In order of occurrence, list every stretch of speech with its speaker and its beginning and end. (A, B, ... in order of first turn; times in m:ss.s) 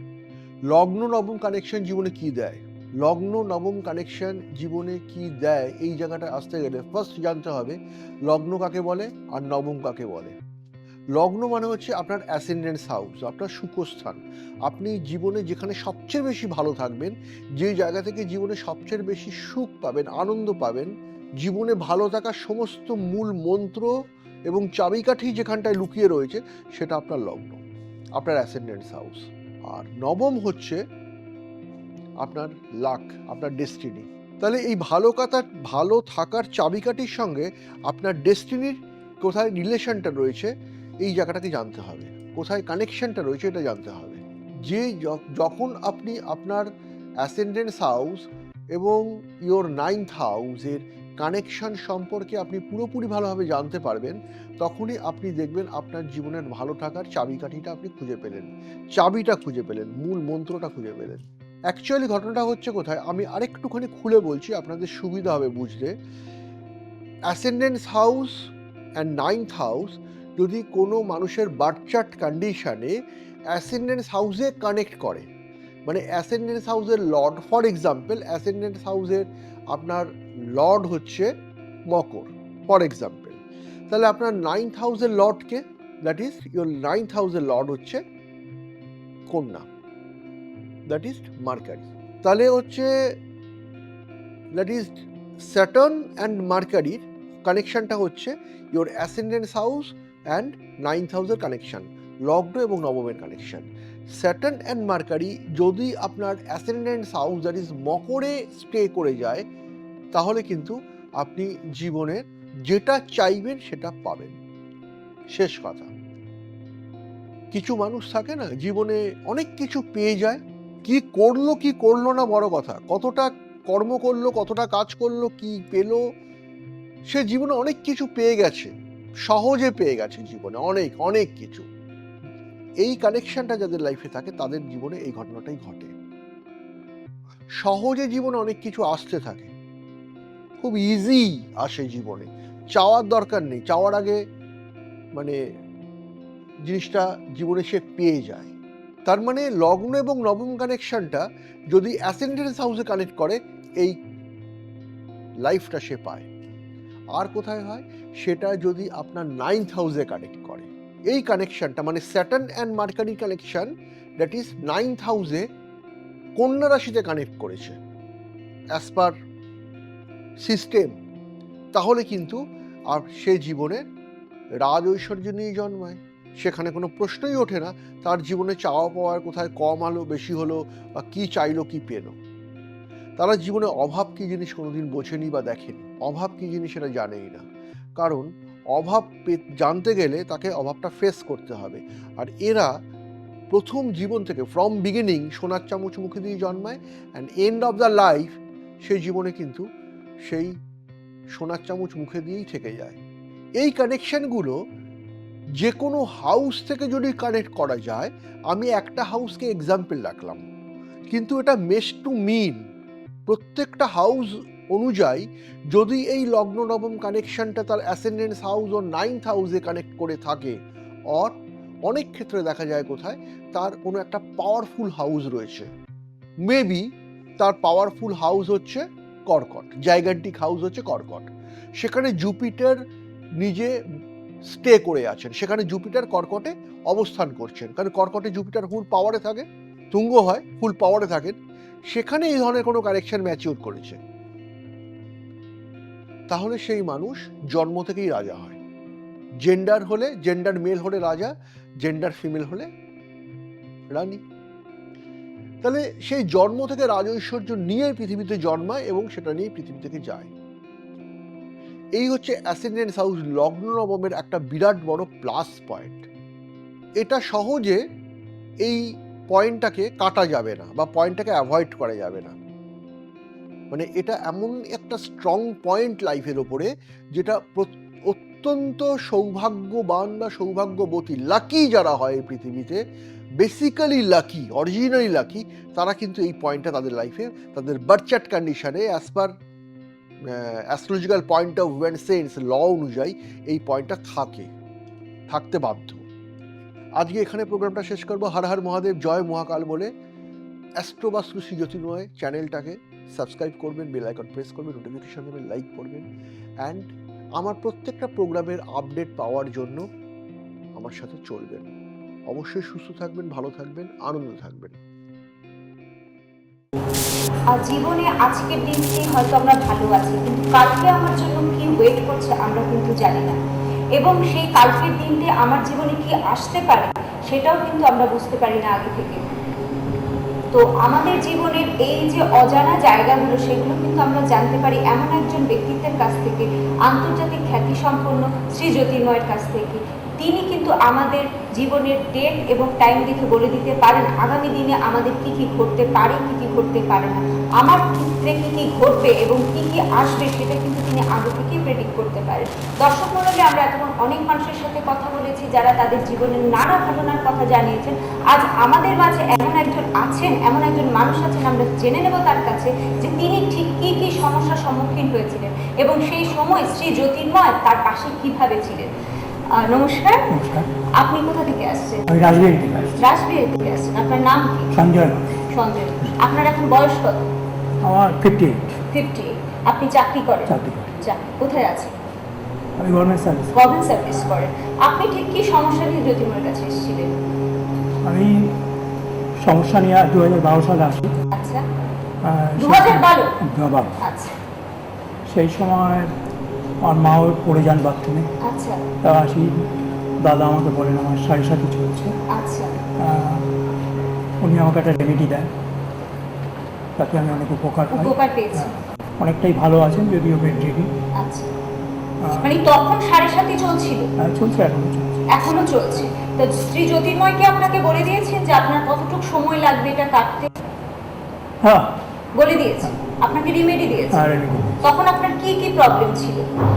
0:00.7-0:10.4 A
0:11.2-0:23.9 A
0:24.5-0:27.6 A
0:28.2-0:30.8 A
0:32.2-0:46.7 A
0:47.2-1:05.9 A
1:07.3-1:13.0 A
1:13.5-1:15.3 A
1:15.9-1:21.3 A
1:21.9-1:28.0 A
1:29.3-1:29.7 A
1:30.9-1:33.2 A
1:34.5-1:49.4 A
1:50.1-1:54.4 A
1:55.3-1:55.9 A
1:57.5-2:06.0 A
2:07.1-2:08.7 A
2:09.3-2:11.7 A
2:12.8-2:16.0 A
2:17.6-2:19.5 A
2:20.6-2:24.2 A
2:25.1-2:25.4 A
2:26.6-2:28.5 A
2:29.1-2:34.0 A
2:35.4-2:36.3 A
2:37.2-2:45.5 A
2:46.4-2:47.8 A
2:48.8-2:49.1 A
2:50.4-2:51.0 A
2:51.7-2:53.8 A
2:54.6-3:02.2 A
3:03.2-3:07.4 A
3:08.0-3:12.7 A
3:13.5-3:19.6 A
3:20.2-3:20.5 A
3:21.3-3:23.0 A
3:23.6-3:24.6 A
3:25.6-3:30.4 A
3:31.1-3:32.6 A
3:33.3-3:40.6 A
3:41.1-3:45.7 A
3:46.4-3:52.8 A
3:53.4-3:53.8 A
3:54.5-4:01.4 A
4:01.9-4:04.0 A
4:06.3-4:08.6 A
4:09.4-4:12.7 A
4:13.9-4:14.2 A
4:15.6-4:20.3 A
4:22.0-4:26.1 A
4:27.0-4:27.8 A
4:28.6-4:32.4 A
4:33.7-4:42.8 A
4:43.4-4:49.3 A
4:50.2-4:54.5 A
4:55.3-4:56.1 A
4:57.0-4:59.9 A
5:00.8-5:06.0 A
5:06.6-5:09.8 A
5:10.8-5:11.7 A
5:12.3-5:14.8 A
5:17.5-5:23.4 B
5:24.0-5:29.2 B
5:30.5-6:08.9 B
6:09.5-6:10.2 B
6:10.3-6:10.7 C
6:11.0-6:12.1 B
6:12.1-6:13.0 C
6:13.0-6:14.7 B
6:14.7-6:15.3 C
6:15.4-6:17.2 B
6:17.8-6:18.8 C
6:18.9-6:21.9 B
6:20.5-6:20.9 C
6:22.8-6:23.5 C
6:23.5-6:27.2 B
6:28.0-6:28.5 C
6:29.4-6:31.1 C
6:31.3-6:31.6 B
6:32.2-6:34.0 C
6:32.6-6:33.3 B
6:34.0-6:34.4 B
6:35.3-6:36.1 C
6:36.8-6:38.3 C
6:38.4-6:38.8 B
6:39.0-6:39.5 C
6:40.2-6:42.1 C
6:42.3-6:42.8 B
6:43.0-6:43.5 C
6:44.4-6:45.5 C
6:47.0-6:48.7 C
6:47.9-6:48.7 B
6:49.2-6:50.9 C
6:51.2-6:51.5 B
6:52.4-6:54.1 B
6:54.2-6:55.3 C
6:55.3-7:00.6 B
7:01.6-7:01.9 C
7:02.4-7:04.3 B
7:04.1-7:04.8 C
7:04.8-7:06.5 B